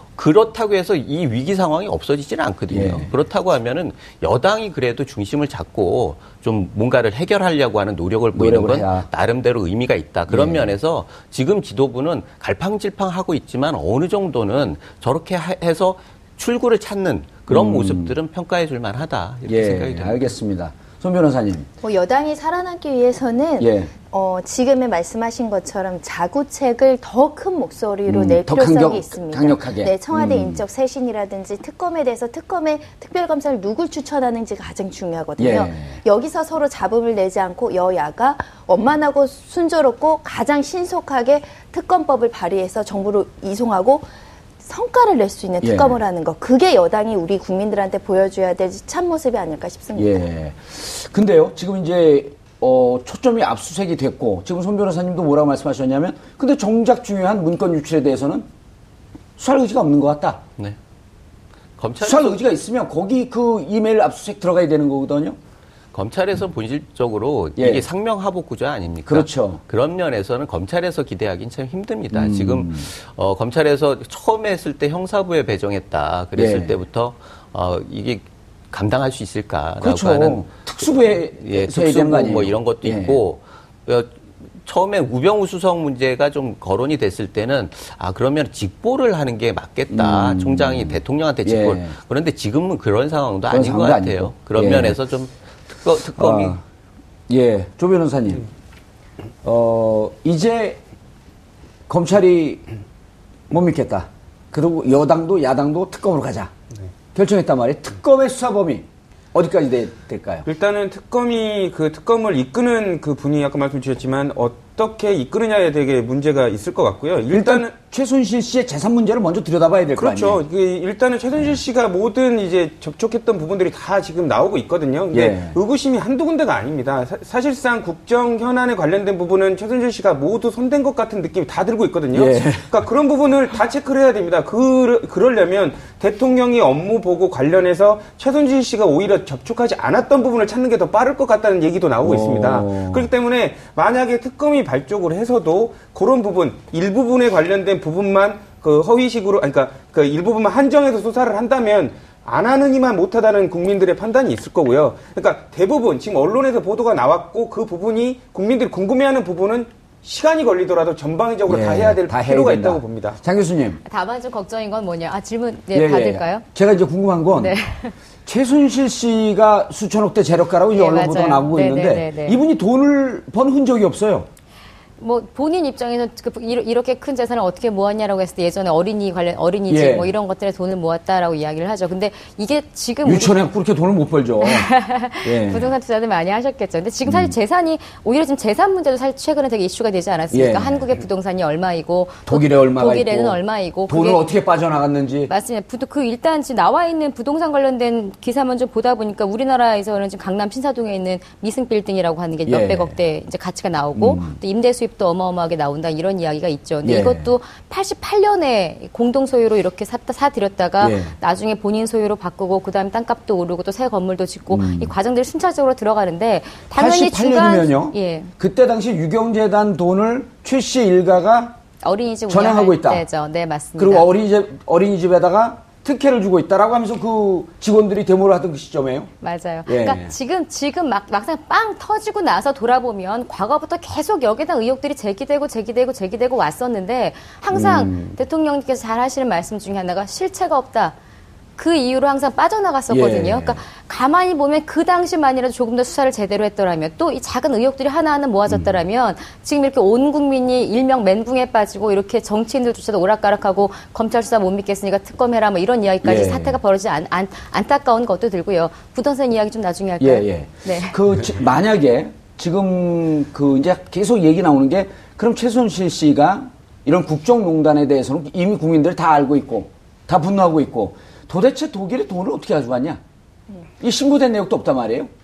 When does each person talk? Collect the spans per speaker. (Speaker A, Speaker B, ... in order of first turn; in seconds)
Speaker A: 0.1-20.3, 61.8-62.4, 65.9-84.1, 84.6-96.6
Speaker B: 2.7-3.1, 8.3-9.1, 10.3-10.7, 17.5-18.1, 19.5-21.7, 23.6-23.9, 28.1-30.6, 35.4-36.0, 45.6-46.0, 50.0-58.5, 59.4-60.4, 62.0-65.4, 67.6-67.8, 69.1-69.6, 72.1-72.9, 76.3-76.7, 79.8-83.2, 89.9-91.9, 93.5-95.0, 96.2-96.6, 97.3-98.5, 99.4-100.8, 101.9-102.6, 103.5-106.5, 107.1-110.5, 117.3-120.4, 125.1-125.6, 132.1-132.8, 142.0-143.1, 161.5-163.8, 165.7-167.6, 168.2-174.3, 179.7-180.1, 183.0-184.7, 185.2-185.7, 187.1-187.3, 190.3-190.9, 192.3-195.3, 202.5-203.0, 203.9-204.4, 206.8-207.3, 210.8-211.1, 214.5-214.9, 216.7-221.6, 222.3-223.0, 223.8-229.1, 229.7-230.1, 237.5-238.2, 242.9-243.6, 248.5-248.8, 256.0-256.6, 260.0-273.0, 273.8-275.1
Speaker C: 21.8-44.1, 44.6-50.2
Speaker D: 110.5-117.7, 120.0-163.2
Speaker E: 163.8-166.4, 167.3-167.9, 170.7-172.4, 175.0-183.3, 184.4-194.2, 195.3-218.3, 221.8-224.1, 229.2-240.9, 241.6-261.0